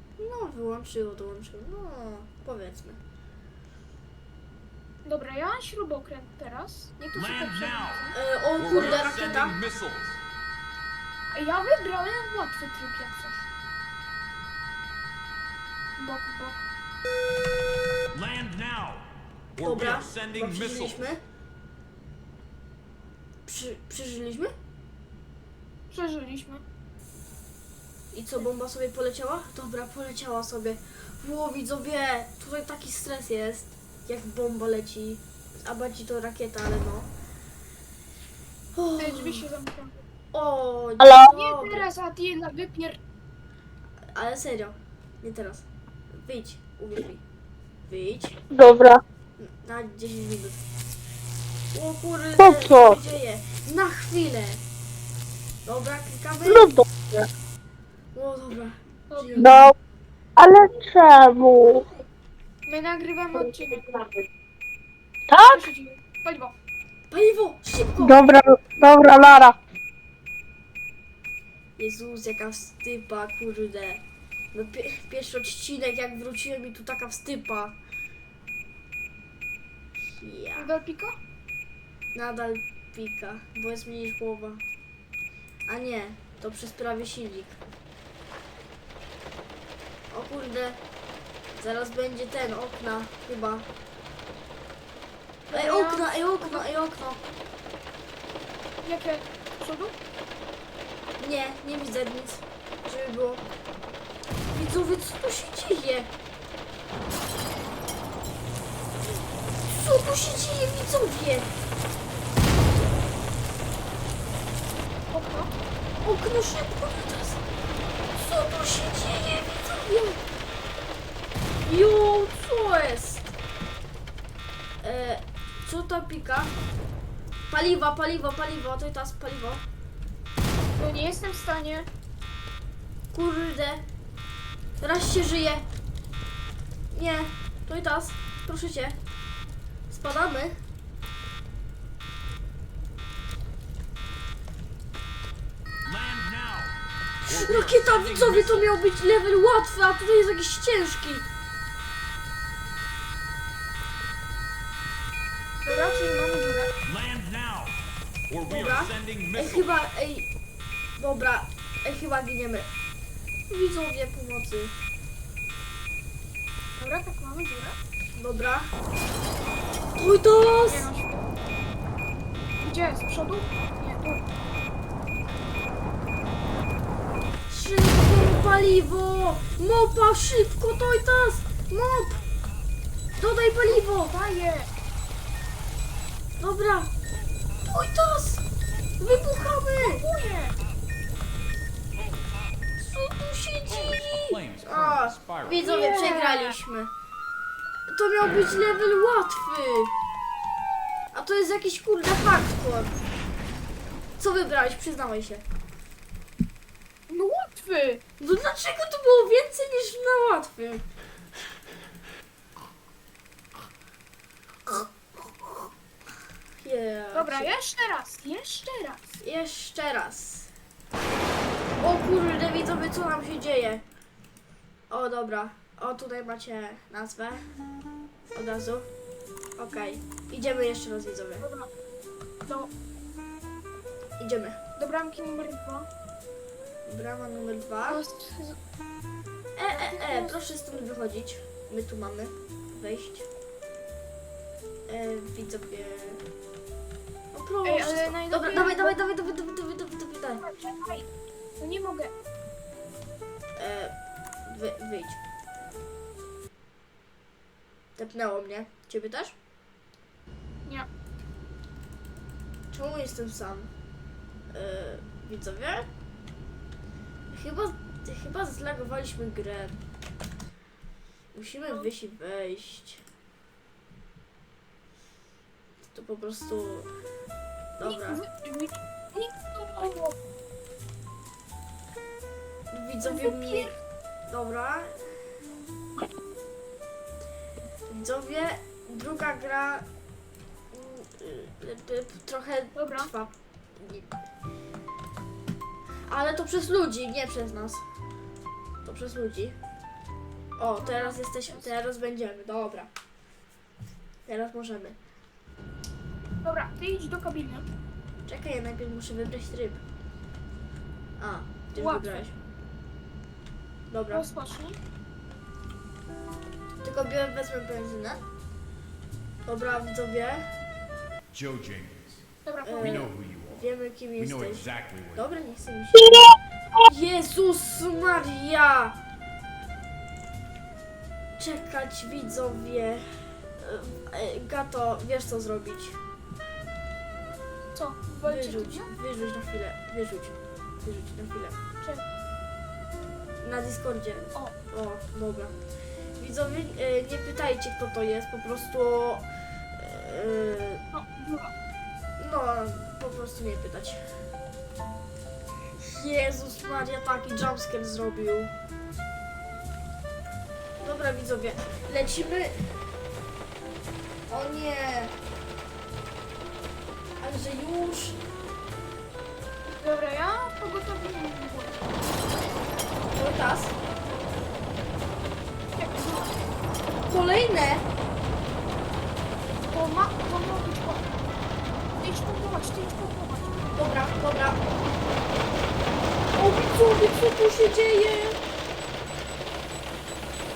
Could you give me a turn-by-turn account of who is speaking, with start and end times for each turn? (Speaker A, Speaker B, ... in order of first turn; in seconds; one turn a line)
Speaker A: 0.2-3.0
Speaker B: 5.0-8.1
Speaker C: 7.1-10.2
Speaker A: 8.1-9.6
Speaker B: 11.3-13.4
Speaker B: 16.0-16.6
Speaker C: 18.1-21.1
Speaker A: 19.6-21.2
Speaker A: 23.4-24.5
Speaker B: 25.9-26.6
Speaker A: 28.1-37.1
Speaker A: 38.7-39.5
Speaker B: 39.0-40.0
Speaker A: 40.3-41.9
Speaker D: 41.0-41.3
Speaker B: 41.2-43.0
Speaker A: 44.1-47.2
Speaker A: 47.9-48.4
Speaker D: 48.5-49.0
Speaker A: 49.4-50.6
Speaker A: 51.7-54.6
Speaker D: 52.4-53.0
Speaker A: 55.6-56.7
Speaker D: 56.4-57.3
Speaker A: 58.1-59.7
Speaker B: 59.1-59.5
Speaker D: 59.4-59.7
Speaker D: 60.4-61.8
Speaker B: 62.7-63.9
Speaker D: 65.3-65.7
Speaker B: 65.4-66.5
Speaker A: 67.1-68.2
Speaker D: 68.0-69.6
Speaker A: 71.8-74.0
Speaker A: 74.5-77.8
Speaker A: 80.0-80.7
Speaker B: 80.5-81.2
Speaker A: 82.1-84.6
Speaker A: 85.7-87.6
Speaker A: 90.1-90.8
Speaker A: 91.5-93.7
Speaker B: 95.5-96.7
Speaker A: 95.5-97.2
Speaker B: 98.8-100.0
Speaker A: 101.2-103.4
Speaker A: 104.5-106.1
Speaker A: 109.6-111.5
Speaker B: 115.1-115.5
Speaker A: 116.0-117.4
Speaker A: 118.1-120.2
Speaker A: 121.6-123.3
Speaker A: 124.8-126.5
Speaker A: 127.5-129.6
Speaker B: 130.8-131.9
Speaker A: 133.1-133.8
Speaker A: 134.8-135.6
Speaker A: 136.9-139.0
Speaker A: 139.9-140.6
Speaker C: 145.8-148.7
Speaker A: 147.2-151.2
Speaker B: 155.6-156.7
Speaker C: 156.8-157.8
Speaker C: 158.3-159.7
Speaker A: 158.5-160.3
Speaker A: 161.0-162.7
Speaker A: 163.5-164.7
Speaker B: 166.8-167.8
Speaker A: 168.1-168.7
Speaker A: 169.9-170.9
Speaker B: 170.5-171.3
Speaker B: 172.6-174.2
Speaker A: 177.5-182.2
Speaker A: 183.2-184.1
Speaker B: 183.7-184.7
Speaker A: 186.4-186.9
Speaker A: 187.7-188.4
Speaker A: 189.0-190.0
Speaker B: 189.8-190.6
Speaker A: 192.8-196.9
Speaker C: 194.1-195.6
Speaker B: 195.6-196.6
Speaker A: 197.9-199.9
Speaker A: 201.1-202.9
Speaker A: 204.2-205.4
Speaker B: 207.1-208.0
Speaker A: 208.2-210.8
Speaker A: 216.6-217.5
Speaker B: 217.1-219.2
Speaker A: 219.2-220.5
Speaker A: 221.8-223.8
Speaker A: 224.9-227.4
Speaker A: 228.3-228.9
Speaker A: 229.6-231.5
Speaker B: 231.4-231.7
Speaker A: 234.2-234.6
Speaker B: 234.8-235.9
Speaker A: 236.8-238.0
Speaker B: 237.8-238.6
Speaker A: 239.6-243.2
Speaker B: 239.7-240.4
Speaker A: 244.9-246.2
Speaker A: 247.3-250.4
Speaker B: 247.6-249.0
Speaker B: 250.4-251.1
Speaker B: 251.6-252.1
Speaker A: 253.6-253.9
Speaker A: 254.4-255.2
Speaker A: 257.9-259.3
Speaker A: 262.7-263.7
Speaker A: 264.5-265.9
Speaker A: 267.3-269.8
Speaker A: 271.3-273.0
Speaker A: 275.9-276.9
Speaker A: 277.8-278.2
Speaker B: 277.8-280.1
Speaker A: 282.7-283.7
Speaker B: 283.0-283.7
Speaker A: 284.3-285.1
Speaker A: 287.9-289.9
Speaker A: 290.7-294.1
Speaker B: 292.7-293.1
Speaker A: 296.1-297.8
Speaker A: 298.8-299.6
Speaker A: 300.6-302.9
Speaker B: 300.8-301.7
Speaker A: 304.3-304.9
Speaker B: 306.4-307.7
Speaker A: 308.2-309.8
Speaker A: 311.2-312.3
Speaker B: 311.8-312.2
Speaker A: 313.9-314.3
Speaker B: 314.1-314.8
Speaker A: 316.8-318.2
Speaker A: 319.4-320.5
Speaker C: 321.3-322.2
Speaker B: 322.4-323.1
Speaker A: 322.6-329.0
Speaker C: 322.8-325.3
Speaker A: 331.4-336.0
Speaker B: 337.7-338.9
Speaker A: 338.2-341.6
Speaker A: 343.4-345.5
Speaker A: 346.2-350.8
Speaker B: 350.9-351.5
Speaker A: 352.2-354.0
Speaker A: 355.8-358.5
Speaker A: 360.8-362.7
Speaker A: 364.3-365.1
Speaker A: 367.2-368.2
Speaker B: 369.7-371.9
Speaker A: 373.1-373.7
Speaker B: 375.8-376.4
Speaker A: 377.1-377.9
Speaker B: 379.7-381.2
Speaker B: 382.0-383.6
Speaker A: 383.7-384.6
Speaker A: 386.3-388.4